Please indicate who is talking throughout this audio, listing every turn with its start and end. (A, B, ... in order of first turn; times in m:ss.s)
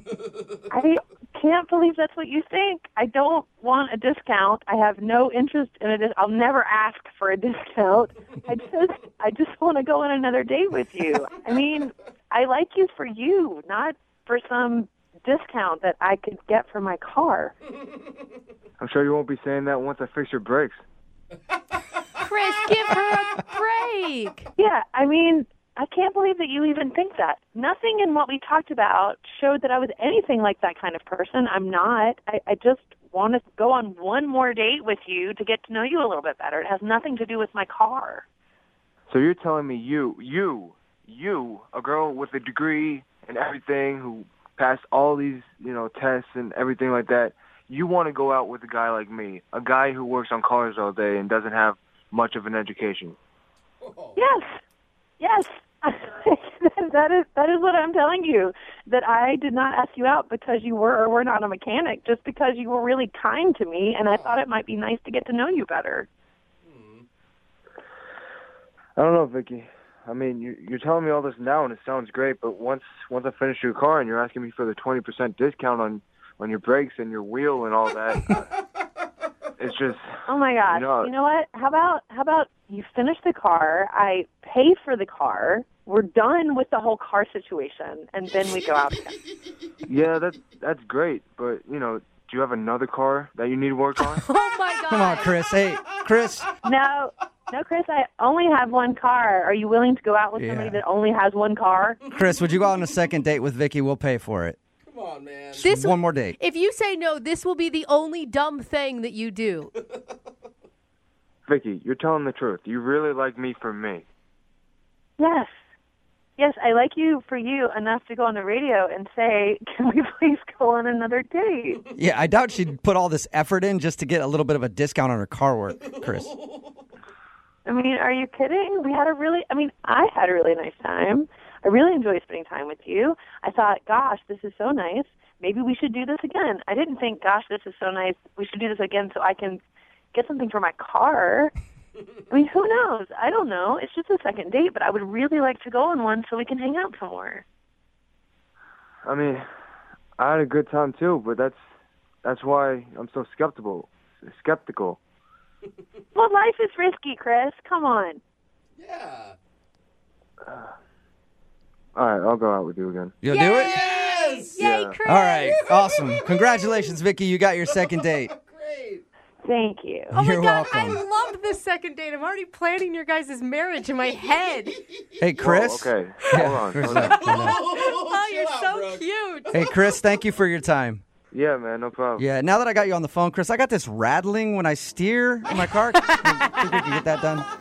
0:00.7-0:17.5 A
0:18.8-0:20.8 B
0:22.2-0:24.5 C
0:24.6-0:38.2 A
0:39.1-0:53.2 B
0:53.8-0:54.2 D
0:54.2-0:54.6 A
0:55.2-1:06.1 A
1:04.1-1:04.4 D
1:06.6-1:07.0 D
1:09.0-1:18.4 B
1:19.6-1:21.1 B
1:20.2-1:29.2 A
1:29.8-1:34.2 B
1:34.0-1:35.3 C
1:34.9-1:36.5 E
1:36.6-1:42.0 A
1:40.4-1:40.8 E
1:42.1-1:44.6 E
1:44.8-1:45.7 D
1:45.5-1:46.4 E
1:45.6-1:49.7 C
1:51.5-1:54.0 B
1:55.2-1:55.5 A
1:56.4-2:01.8 A
2:01.9-2:06.3 E
2:07.6-2:19.6 A
2:20.1-2:21.5 A
2:22.3-2:27.4 A
2:29.0-2:29.4 B
2:30.2-2:31.6 B
2:32.2-2:35.0 B
2:36.1-2:38.2 A
2:38.8-2:39.4 D
2:40.4-2:40.7 B
2:41.9-2:43.1 B
2:43.2-2:43.8 E
2:43.3-2:46.0 C
2:43.5-2:44.6 D
2:44.6-2:45.0 B
2:45.0-2:48.3 E
2:45.7-2:46.3 D
2:48.3-2:49.0 D
2:49.4-2:50.2 A
2:50.1-2:51.0 E
2:50.1-2:54.8 C
2:55.2-2:57.6 E
2:55.4-2:57.2 B
2:56.9-2:59.1 D
2:57.2-2:59.6 C
2:59.5-3:01.0 E
3:01.3-3:02.2 B
3:02.2-3:07.4 E
3:05.5-3:07.0 C